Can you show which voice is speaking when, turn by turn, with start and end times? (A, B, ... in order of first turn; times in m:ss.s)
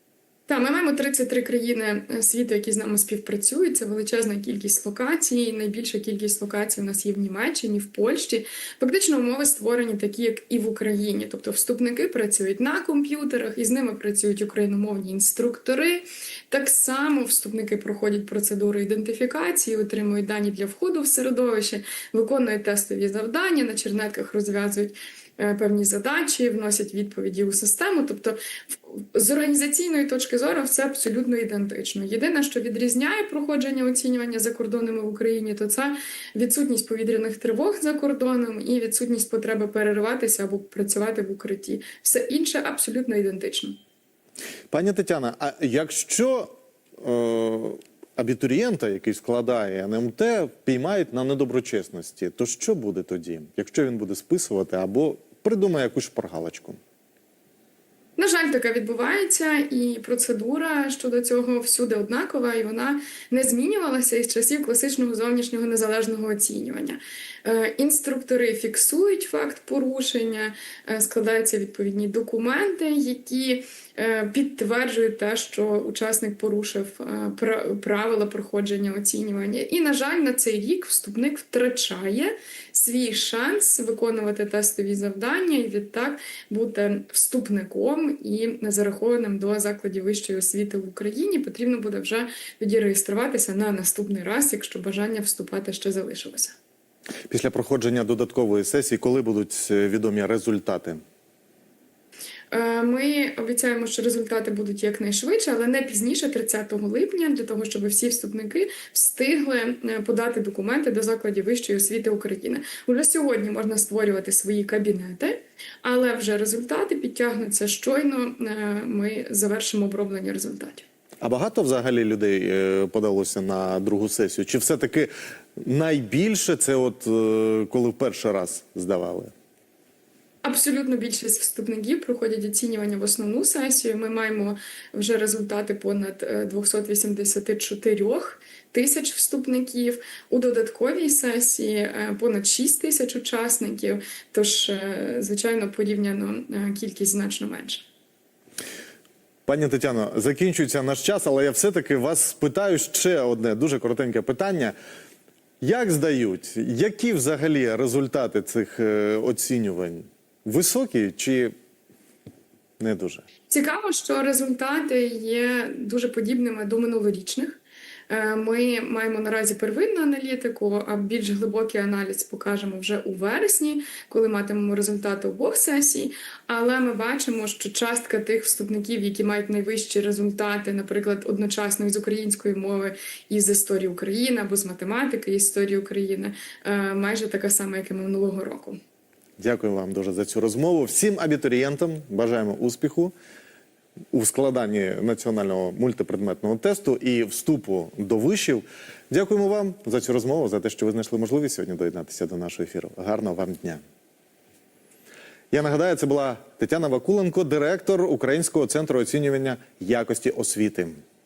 0:00.5-0:43.8 A
0:44.7-0:56.8 B
0:58.2-1:36.5 A
1:37.3-1:41.0 B
1:42.5-2:00.8 A
2:01.2-2:09.3 B
2:10.4-2:27.8 A
2:29.4-2:34.7 B
2:35.6-2:41.5 B
2:42.8-2:43.2 B
2:43.5-3:08.8 A
3:09.4-3:13.1 B
3:14.1-3:23.8 B
3:25.5-3:31.0 B